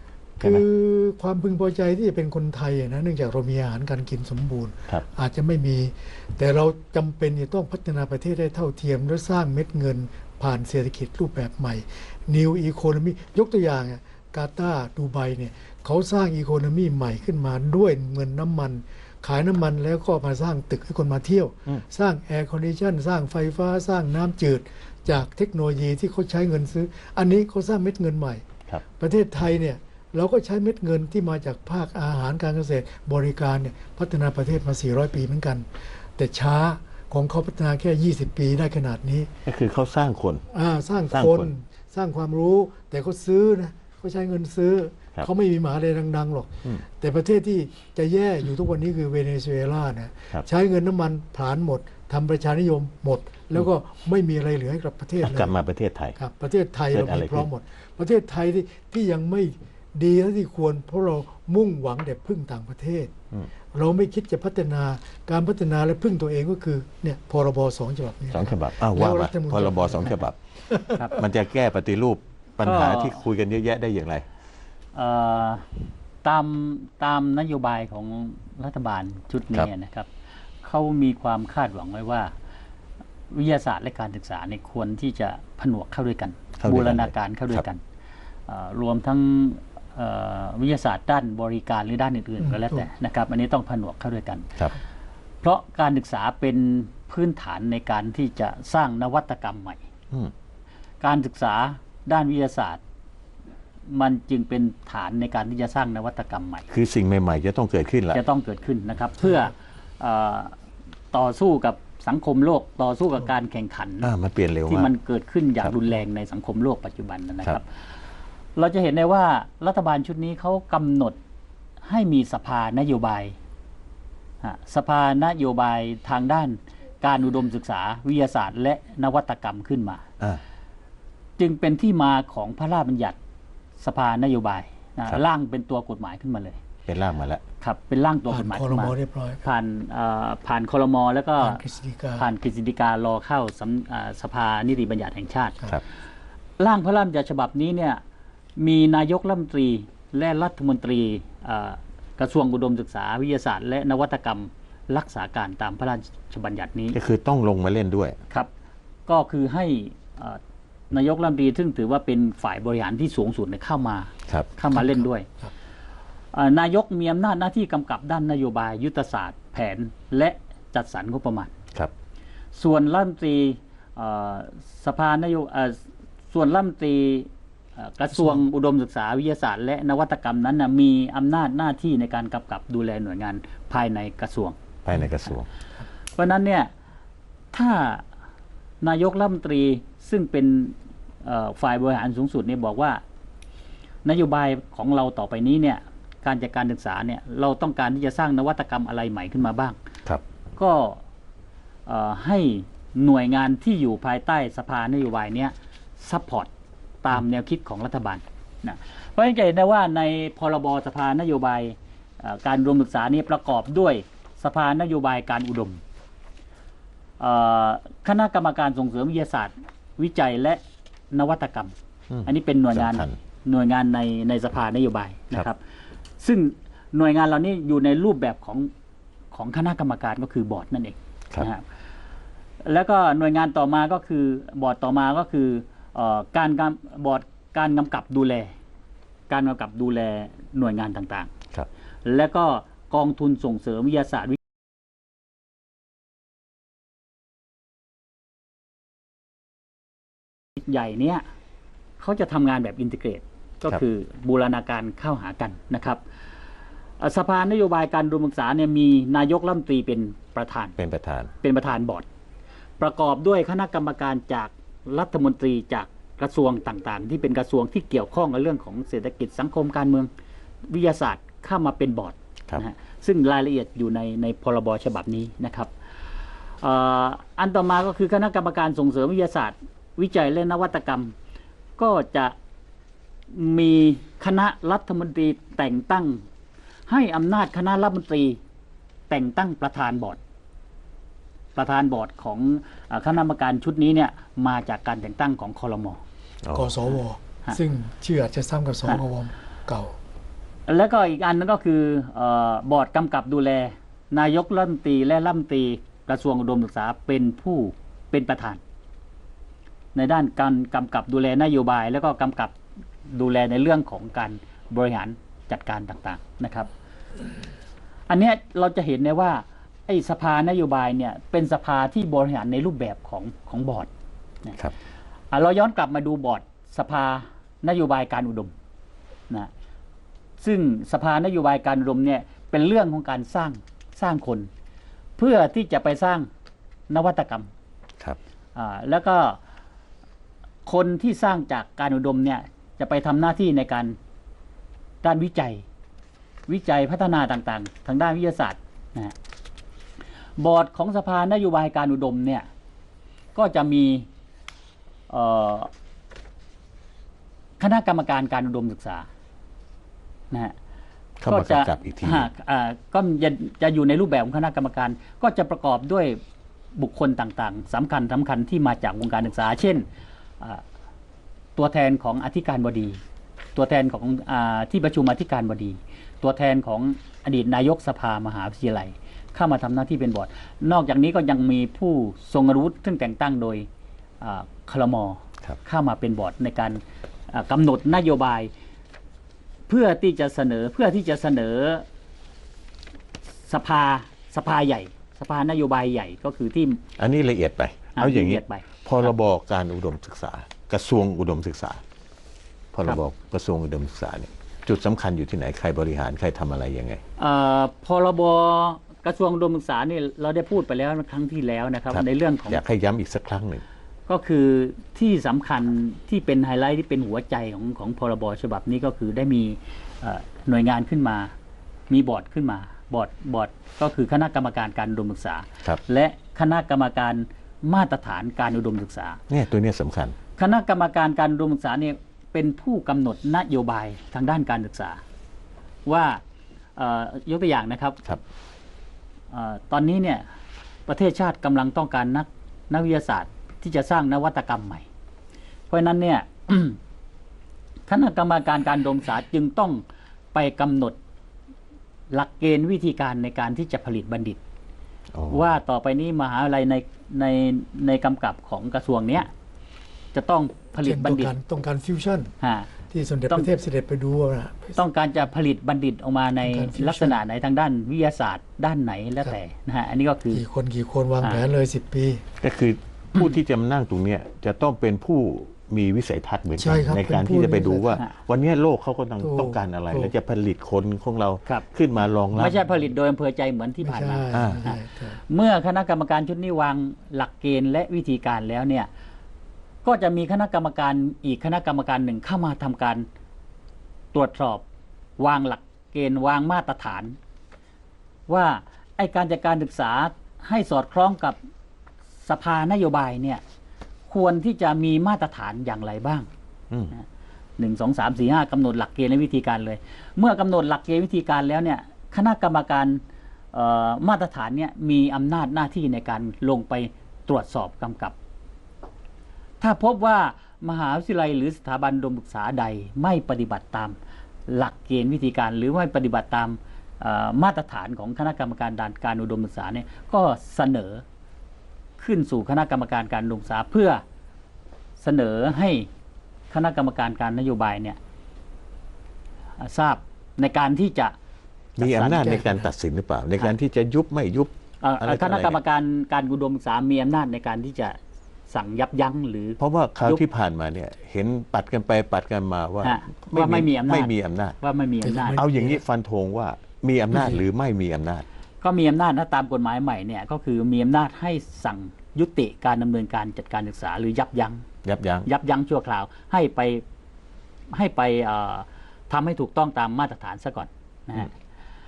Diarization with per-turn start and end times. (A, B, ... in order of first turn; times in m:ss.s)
0:00.4-0:28.4 A
0:29.0-0:39.3 A
0:39.4-0:40.4 B
0:40.5-0:55.5 A
0:41.1-0:41.5 B
0:55.2-0:56.2 B
0:56.2-1:03.1 A
0:56.9-0:57.5 B
1:03.7-1:10.2 A
1:08.3-1:10.4 B
1:10.7-1:11.2 A
1:11.0-1:11.2 C
1:11.1-1:14.2 B
1:12.6-1:13.2 C
1:14.9-1:15.7 C
1:16.2-1:20.1 C
1:20.6-1:22.3 C
1:23.3-1:27.8 C
1:26.6-1:27.6 B
1:28.5-1:34.5 C
1:32.4-1:32.8 A
1:35.4-1:39.8 C
1:41.0-1:42.8 C
1:43.9-1:46.6 C
1:46.7-1:48.2 B
1:48.1-1:50.6 C
1:51.1-1:54.1 C
1:54.0-1:54.9 B
1:54.7-1:57.6 C
1:58.6-2:01.2 C
2:01.8-2:03.4 C
2:04.4-2:10.0 C
2:11.4-2:13.2 C
2:13.8-2:16.6 C
2:16.9-2:17.4 B
2:17.6-2:21.6 C
2:18.3-2:19.4 A
2:21.4-2:22.3 A
2:22.2-2:25.6 C
2:26.6-2:28.0 C
2:28.6-2:37.0 C
2:36.9-2:38.2 B
2:39.1-2:40.4 C
2:40.9-2:45.3 C
2:44.7-2:45.5 A
2:46.3-2:51.5 C
2:52.5-3:04.6 C
3:04.8-3:05.5 B
3:06.2-3:06.7 C
3:07.5-3:08.0 C
3:08.8-3:13.0 C
3:14.0-3:19.8 C
3:20.6-3:21.0 C
3:21.9-3:26.5 C
3:27.0-3:35.8 C
3:37.2-3:41.7 C
3:42.1-3:43.1 B
3:42.2-3:45.6 C
3:46.2-3:48.7 C
3:49.3-3:51.6 C
3:52.6-3:58.5 C
3:59.3-4:01.3 C
4:02.0-4:04.4 C
4:10.6-4:11.2 C
4:12.0-4:16.0 C
4:17.0-4:20.8 C
4:20.8-4:21.3 B
4:21.4-4:22.1 C
4:22.8-4:30.1 C
4:30.7-4:35.7 C
4:36.6-4:41.1 C
4:41.8-4:42.3 C
4:43.3-4:46.2 C
4:46.9-4:48.4 C
4:49.1-4:50.2 C
4:51.6-4:56.0 C
4:56.4-4:56.7 B
4:56.5-5:00.0 A
5:00.7-5:08.6 C
5:09.9-5:12.5 C
5:13.1-5:16.7 C
5:18.1-5:23.9 C
5:25.3-5:28.5 C
5:30.4-5:34.5 C
5:35.2-5:36.3 C
5:36.9-5:37.5 C
5:38.5-5:39.4 C
5:40.6-5:44.0 C
5:45.0-5:45.6 C
5:46.5-5:49.1 C
5:50.4-5:52.5 C
5:53.3-5:54.1 C
5:55.1-5:55.7 C
5:57.6-5:59.1 C
6:01.2-6:02.3 B
6:01.3-6:06.2 C
6:06.8-6:09.8 C
6:11.6-6:13.0 C
6:13.6-6:23.7 C
6:24.2-6:28.5 C
6:29.7-6:31.8 C
6:33.5-6:36.8 C
6:37.0-6:41.8 B
6:38.0-6:38.7 C
6:42.7-6:47.0 B
6:47.2-6:52.6 C
6:51.9-6:53.6 B
6:54.1-7:01.3 C
7:01.9-7:09.2 C
7:09.3-7:10.2 B
7:10.4-7:15.0 C
7:15.8-7:16.2 C
7:16.8-7:18.0 C
7:19.3-7:20.2 C
7:20.9-7:24.8 C
7:25.7-7:26.8 C
7:27.9-7:29.8 C
7:30.3-7:31.0 C
7:32.1-7:34.4 C
7:35.1-7:35.4 B
7:35.3-7:39.3 C
7:40.1-7:41.3 C
7:40.8-7:42.3 A
7:42.4-7:42.7 C
7:42.9-7:44.8 A
7:44.7-7:50.4 C
7:46.4-7:47.2 A
7:50.3-7:52.2 A
7:52.4-8:02.6 B
7:56.6-7:58.0 A
7:59.2-8:00.1 A
8:02.4-8:08.9 C
8:03.8-8:05.2 A
8:04.3-8:04.7 B
8:09.8-8:13.1 C
8:14.1-8:14.6 C
8:15.2-8:17.2 C
8:18.3-8:21.4 C
8:22.2-8:23.4 C
8:24.1-8:26.3 C
8:27.6-8:33.0 C
8:33.5-8:38.1 C
8:39.6-8:44.0 C
8:44.5-8:51.0 C
8:52.0-8:54.0 C
8:55.0-8:55.9 C
8:56.5-8:58.0 C
8:59.6-9:01.1 C
9:01.8-9:02.5 C
9:01.8-9:05.6 B
9:02.2-9:02.5 A
9:04.8-9:08.0 C
9:08.5-9:10.2 C
9:09.6-9:14.6 B
9:12.8-9:15.4 C
9:15.0-9:15.8 A
9:15.3-9:18.2 B
9:18.6-9:24.6 C
9:24.8-9:25.3 B
9:25.2-9:26.8 C
9:27.7-9:31.3 C